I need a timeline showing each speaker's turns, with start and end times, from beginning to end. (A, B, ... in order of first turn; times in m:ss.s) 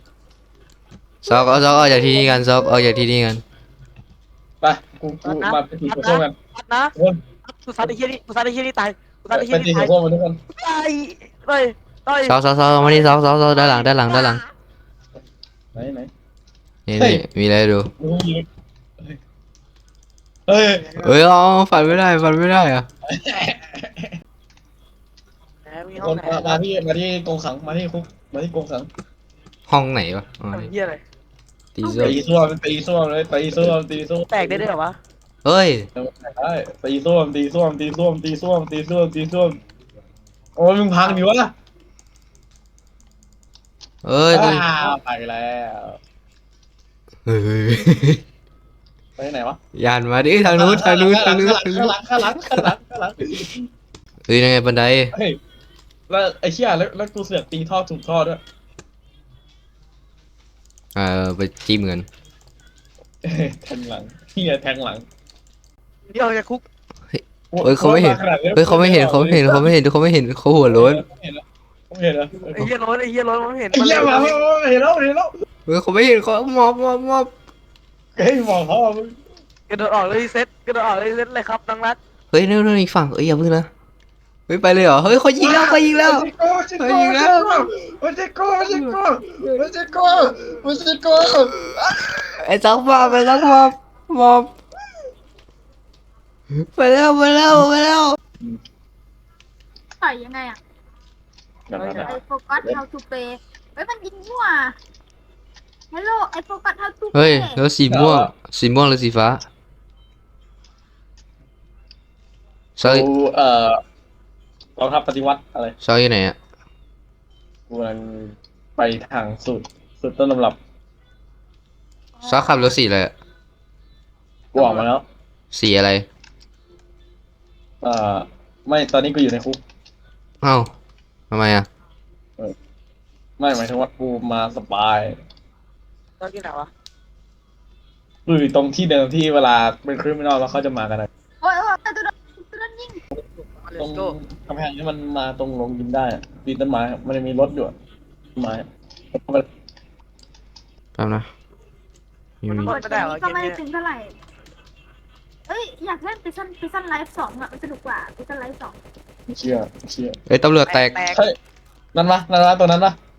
0:01.2-0:03.0 A
0:01.2-0:03.4 B
0:04.6-0:06.4 A
0:05.2-0:06.9 C
0:06.9-0:07.2 A
0:07.4-0:09.9 C
0:09.3-0:10.4 A
0:10.6-0:13.8 C
0:12.2-0:14.4 B
0:15.7-0:16.1 A
0:16.9-0:17.9 B
0:17.0-0:17.2 A
0:18.0-0:18.4 A
0:20.5-0:21.1 A
0:21.0-0:22.9 B
0:23.0-0:24.1 A
0:25.6-0:26.6 C
0:26.0-0:28.9 A
0:29.7-0:30.7 B
0:30.5-0:31.0 C
0:31.7-0:32.2 B
0:31.8-0:34.6 A
0:34.3-0:35.0 C
0:35.4-0:35.9 B
0:36.0-0:39.6 A
0:40.6-0:41.5 A
0:44.0-0:44.7 B
0:44.3-0:46.0 A
0:47.2-0:48.2 B
0:49.2-0:49.6 A
0:49.7-0:52.7 B
0:50.4-0:53.7 A
0:54.3-0:55.1 B
0:55.1-0:55.4 A
0:56.1-0:58.4 A
1:01.0-1:02.1 B
1:03.2-1:05.0 A
1:06.1-1:06.6 C
1:07.1-1:11.0 B
1:07.5-1:09.7 A
1:10.7-1:12.7 A
1:12.5-1:14.4 C
1:13.7-1:15.3 A
1:15.7-1:17.3 B
1:18.2-1:19.2 A
1:19.7-1:22.0 C
1:22.3-1:23.7 B
1:24.5-1:26.3 B
1:25.4-1:32.4 A
1:26.8-1:27.7 B
1:28.7-1:29.6 B
1:32.4-1:34.5 B
1:33.0-1:33.6 A
1:36.5-1:38.2 B
1:40.0-1:40.6 D
1:41.7-1:42.8 A
1:41.8-1:42.2 C
1:42.1-1:44.8 D
1:45.9-1:47.5 D
1:47.1-1:49.4 B
1:47.9-1:48.3 A
1:52.8-1:53.1 B
1:52.8-1:53.8 A
1:54.8-1:55.8 A
1:55.8-1:56.4 B
1:57.7-2:00.6 A
2:02.2-2:03.1 B
2:04.5-2:05.0 A
2:04.6-2:04.9 C
2:05.5-2:06.0 B
2:07.8-2:09.6 A
2:10.4-2:10.7 B
2:11.3-2:11.7 B
2:13.4-2:15.2 A
2:16.2-2:16.7 C
2:18.2-2:21.1 A
2:21.4-2:23.0 D
2:23.4-2:24.2 C
2:23.8-2:27.8 A
2:28.4-2:29.4 A
2:31.0-2:31.3 B
2:32.4-2:32.7 B
2:32.5-2:33.6 C
2:32.7-2:34.1 D
2:35.5-2:38.8 D
2:39.3-2:40.2 A
2:40.3-2:41.0 B
2:40.7-2:41.2 C
2:41.1-2:41.4 A
2:41.9-2:43.0 A